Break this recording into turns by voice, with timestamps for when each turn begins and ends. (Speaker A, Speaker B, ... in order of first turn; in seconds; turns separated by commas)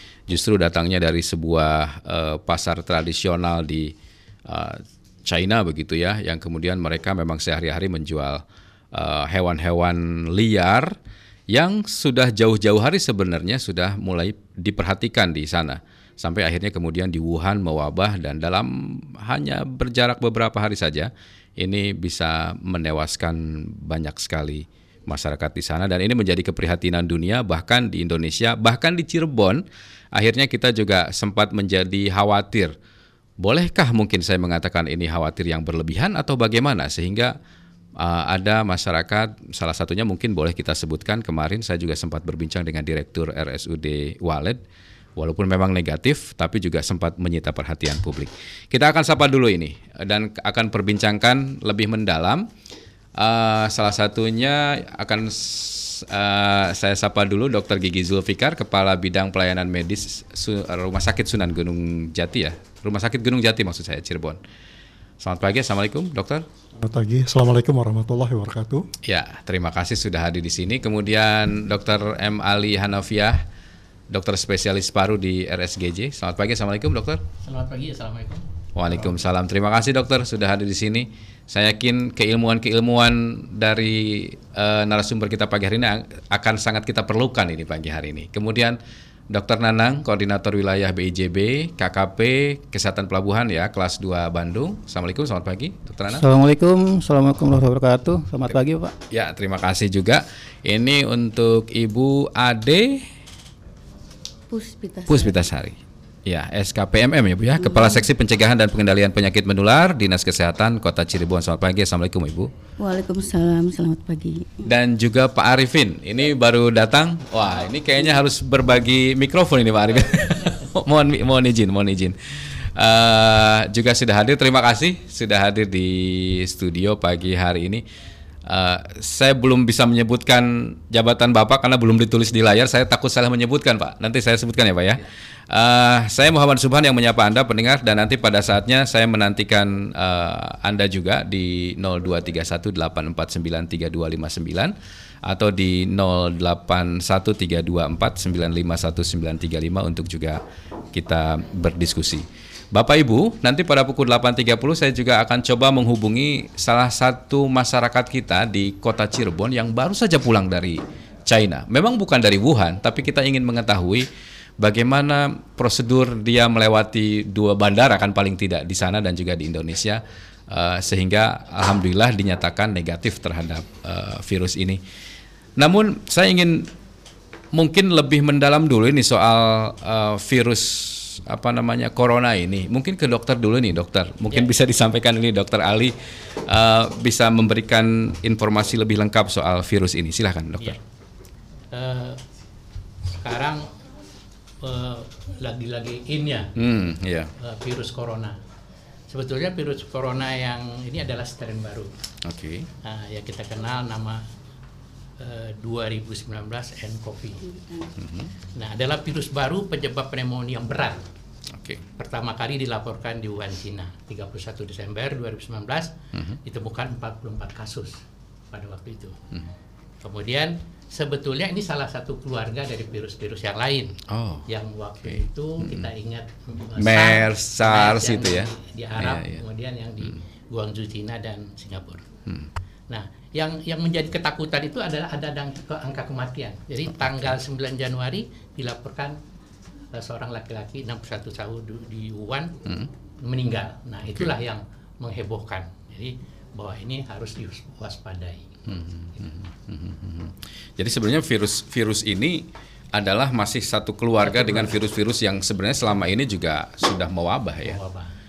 Speaker A: 0.3-3.9, Speaker A: 4.5-10.9, Speaker A: 11.5-29.6, Speaker A: 30.1-32.7, Speaker A: 33.4-37.3, Speaker A: 38.0-44.6, Speaker A: 45.2-52.5, Speaker A: 53.2-64.4, Speaker A: 65.2-66.4, Speaker B: 66.8-68.9, Speaker A: 69.1-73.4, Speaker A: 74.1-77.2, Speaker C: 77.5-78.4, Speaker A: 78.8-88.8, Speaker A: 89.3-96.2, Speaker D: 96.2-98.9, Speaker A: 99.1-103.0, Speaker E: 104.5-105.4, Speaker A: 105.1-112.5, Speaker E: 107.6-108.1, Speaker E: 112.8-114.7, Speaker A: 114.7-127.8, Speaker A: 128.5-144.7, Speaker A: 145.3-150.4, Speaker A: 150.9-164.1, Speaker A: 164.6-174.8, Speaker A: 175.6-176.7, Speaker A: 177.5-185.9, Speaker A: 186.5-190.8, Speaker C: 191.7-192.2, Speaker C: 193.1-193.7, Speaker C: 194.6-196.5, Speaker A: 196.6-197.3, Speaker C: 197.4-198.4, Speaker C: 199.1-201.9, Speaker A: 202.2-202.7, Speaker C: 202.8-204.2, Speaker C: 205.2-207.4, Speaker A: 208.0-208.3, Speaker C: 208.6-211.0, Speaker A: 211.6-211.8, Speaker C: 212.0-215.9, Speaker C: 216.4-218.0, Speaker C: 218.5-219.2, Speaker C: 220.0-232.1, Speaker A: 224.1-224.5, Speaker A: 225.1-225.9, Speaker A: 226.8-229.4, Speaker C: 232.9-239.2, Speaker C: 239.9-242.5, Speaker C: 243.2-248.6, Speaker A: 248.7-257.8, Speaker C: 254.2-254.8, Speaker C: 257.6-258.1